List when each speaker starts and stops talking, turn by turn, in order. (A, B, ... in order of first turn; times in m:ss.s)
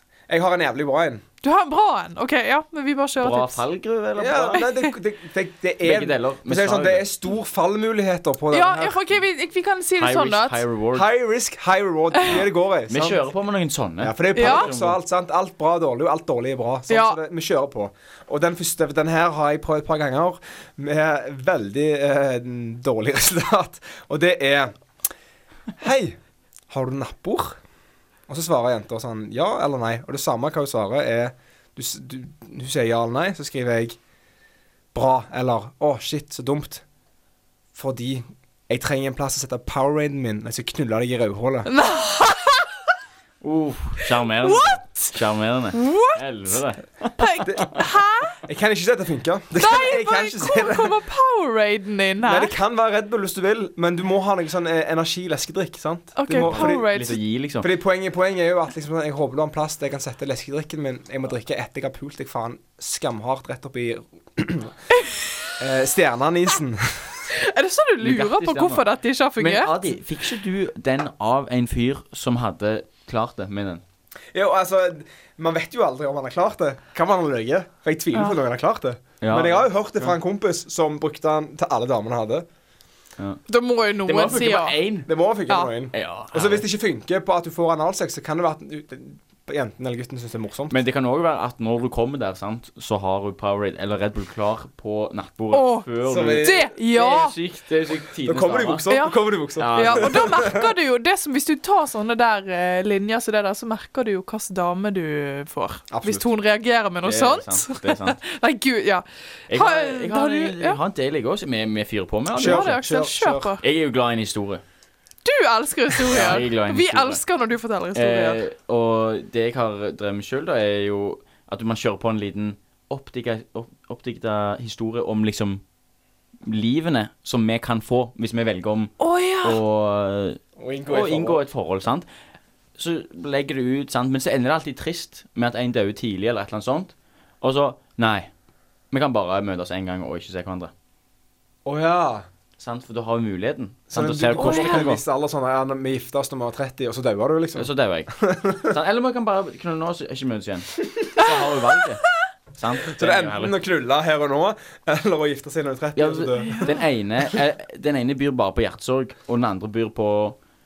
0:00.3-0:01.2 A
0:01.4-0:03.6 B
0:03.2-0:04.6 C
0:04.2-0:09.2 A
0:04.5-0:04.9 B
0:05.8-0:07.1 C
0:08.5-0:10.6 B
0:10.0-0:11.1 C
0:10.9-0:13.2 A
0:12.2-0:15.0 C
0:14.0-0:24.7 A
0:14.3-0:14.7 B
0:16.9-0:17.2 B
0:25.8-0:26.2 A
0:26.7-0:27.6 A
0:28.3-0:34.0 A
0:34.9-0:36.8 A
0:37.7-0:41.7 A
0:41.6-0:42.8 B
0:43.4-0:47.8 C
0:44.1-0:45.2 B
0:45.7-0:46.2 B
0:47.2-0:48.4 B
0:47.4-0:47.8 A
0:48.4-0:51.0 A
0:49.6-0:52.6 B
0:52.2-1:04.7 A
0:56.2-0:57.2 B
0:56.4-0:57.7 C
1:04.9-1:05.5 B
1:05.6-1:07.2 A
1:07.3-1:09.7 B
1:08.0-1:13.8 C
1:14.3-1:22.4 A
1:19.2-1:20.1 C
1:23.5-1:24.8 B
1:24.0-1:25.1 C
1:25.1-1:30.8 A
1:25.9-1:26.6 C
1:30.7-1:38.9 C
1:35.5-1:37.4 B
1:36.0-1:36.7 A
1:38.2-1:40.7 A
1:38.9-1:50.8 B
1:39.6-1:40.4 C
1:45.9-1:46.2 A
1:47.0-1:48.2 C
1:49.5-1:52.8 C
1:52.4-1:53.5 A
1:52.4-1:53.6 B
1:53.6-1:54.6 C
1:55.2-1:58.4 B
1:56.1-1:57.2 C
1:57.9-2:05.6 C
2:06.4-2:12.1 C
2:09.0-2:09.6 B
2:10.6-2:11.4 A
2:12.8-2:18.3 C
2:18.9-2:20.7 C
2:21.6-2:22.2 A
2:22.6-2:25.0 C
2:23.9-2:28.7 A
2:24.3-2:24.9 B
2:27.6-2:33.6 C
2:32.9-2:36.7 A
2:36.0-2:40.4 C
2:36.4-2:36.8 B